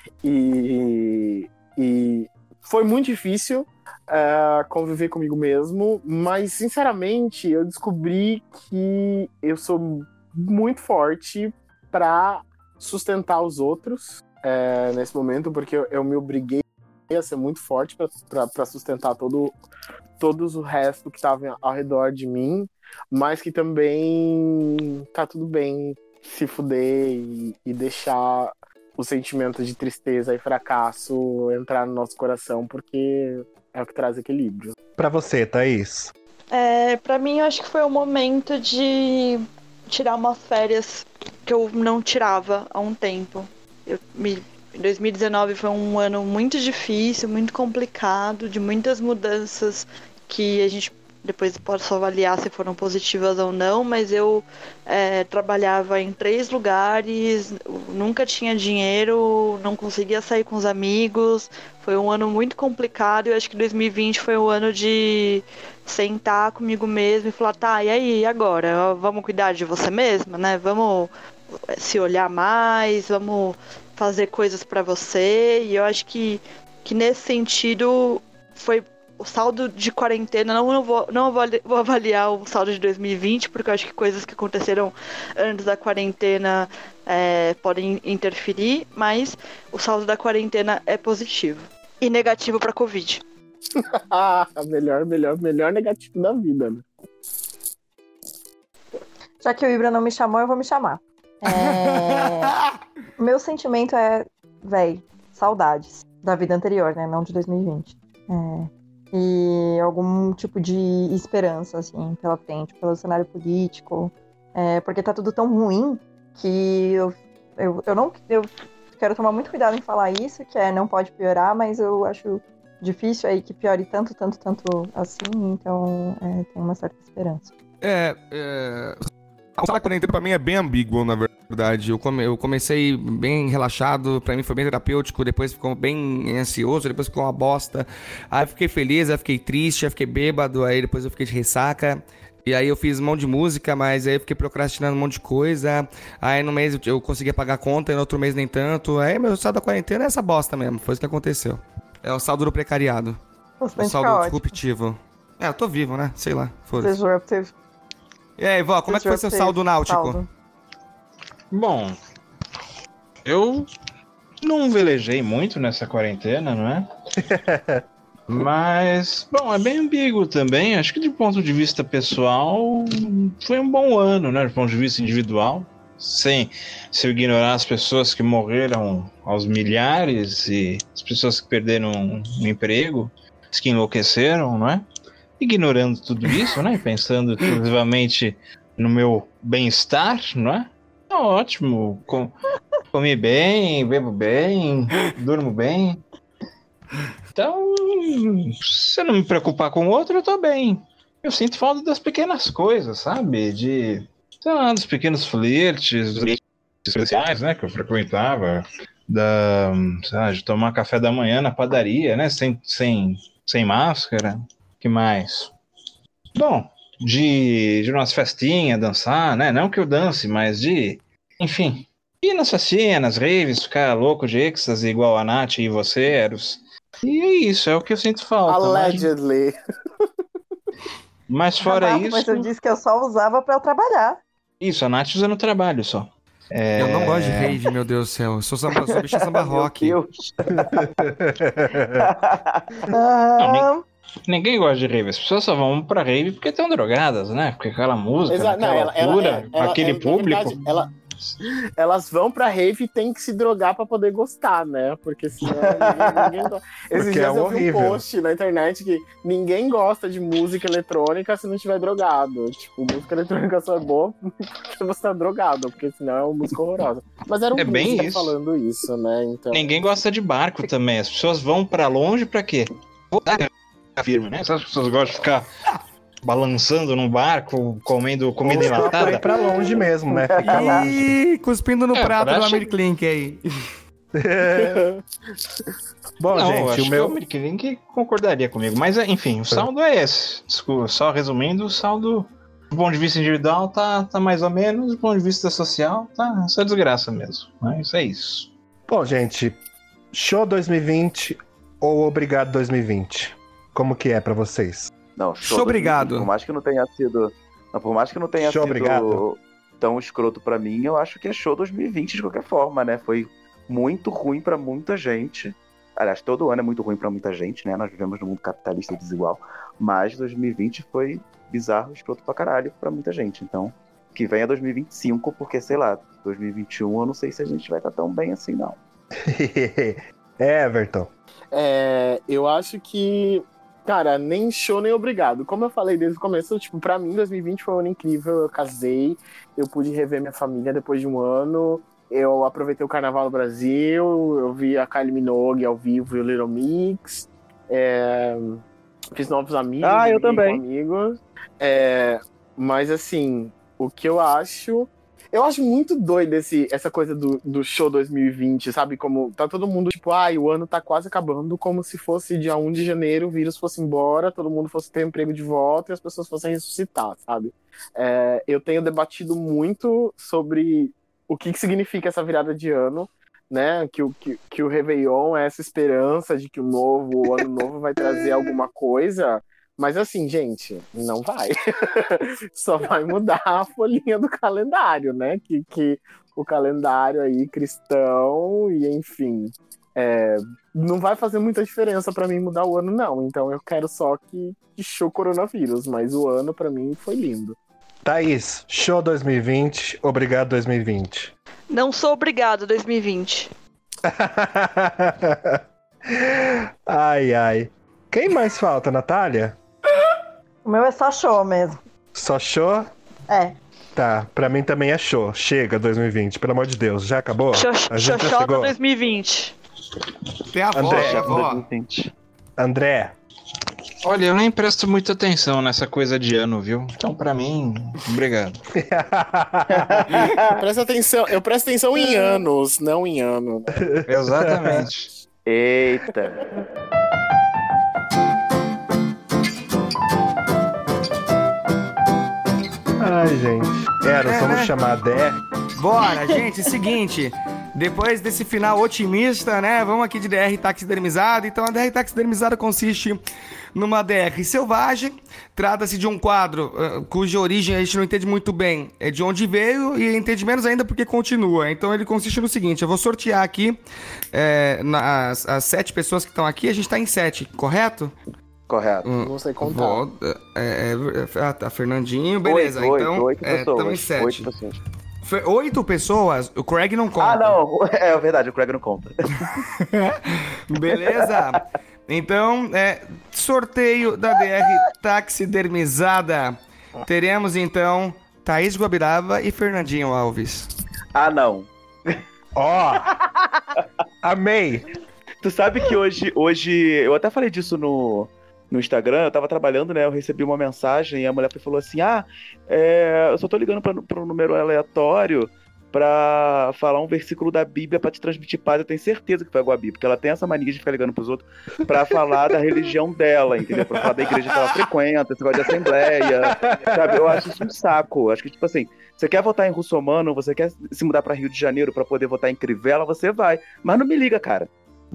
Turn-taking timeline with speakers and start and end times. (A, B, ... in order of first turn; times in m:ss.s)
0:00.2-0:19.6 A
0:20.2-0:34.8 A
0:35.0-0:36.1 B
0:36.5-1:11.1 C
1:11.7-1:33.2 C
1:33.8-1:36.8 A
1:39.4-1:42.5 D
1:43.2-2:07.5 D
2:07.8-2:33.2 E
2:33.6-2:34.5 D
2:33.8-2:37.0 E
2:36.8-2:37.5 D
2:38.4-2:40.2 E
2:38.9-2:40.3 D
2:41.5-2:42.0 F
2:43.2-2:43.7 F
2:44.4-2:46.9 F
2:47.2-2:47.8 B
2:48.3-3:04.9 F
3:05.4-3:12.4 F
3:12.9-3:16.0 F
3:17.4-3:35.5 F
3:36.4-3:49.1 F
3:48.5-3:49.5 A
3:51.3-3:52.5 F
3:51.6-3:54.2 D
3:54.6-3:57.6 F
3:56.8-4:00.0 E
3:58.7-4:00.9 G
4:00.7-4:02.0 B
4:02.0-4:02.7 G
4:02.9-4:03.8 D
4:03.4-4:03.7 F
4:04.3-4:10.8 F
4:08.3-4:10.9 A
4:11.8-4:29.7 A
4:15.5-4:16.5 G
4:17.0-4:18.0 B
4:27.6-4:28.4 F
4:29.5-4:35.5 F
4:36.2-4:39.3 F
4:38.4-4:41.0 B
4:40.2-4:40.9 G
4:40.4-4:43.4 E
4:41.9-4:42.6 F
4:44.2-4:44.9 B
4:44.5-4:45.0 A
4:46.2-4:47.2 B
4:46.3-4:58.5 F
4:58.9-4:59.6 B
5:00.1-5:04.9 B
5:05.2-5:28.8 G
5:05.4-5:06.3 E
5:08.4-5:09.2 B
5:29.3-5:31.1 B
5:31.5-6:37.6 A
5:49.8-5:50.6 G
6:38.0-6:41.3 B
6:41.7-6:43.5 C
6:44.0-6:49.6 B
6:50.6-6:51.8 D
6:52.2-6:52.9 B
6:53.3-6:53.6 D
6:54.0-6:58.7 B
6:57.5-6:59.6 C
7:00.5-7:01.6 E
7:00.8-7:01.4 B
7:00.8-7:02.1 G
7:02.6-7:03.1 B
7:04.0-7:08.6 F
7:08.8-7:10.1 B
7:09.7-7:10.6 G
7:10.5-7:13.8 A
7:13.8-7:14.9 B
7:14.1-7:15.1 F
7:15.5-7:16.4 G
7:23.0-7:25.4 B
7:24.2-7:24.7 E
7:25.8-7:33.2 E
7:33.8-7:43.8 E
7:44.3-7:48.1 E
7:48.7-7:49.1 G
7:49.0-7:54.5 E
7:49.2-7:50.0 A
7:52.4-7:54.8 G
7:55.2-7:57.6 E
7:57.2-7:59.6 G
7:59.8-8:10.7 E
8:00.9-8:01.6 G
8:11.2-8:11.7 G
8:12.6-8:13.1 B
8:14.2-8:14.9 B
8:15.4-8:44.7 G
8:36.4-8:37.5 B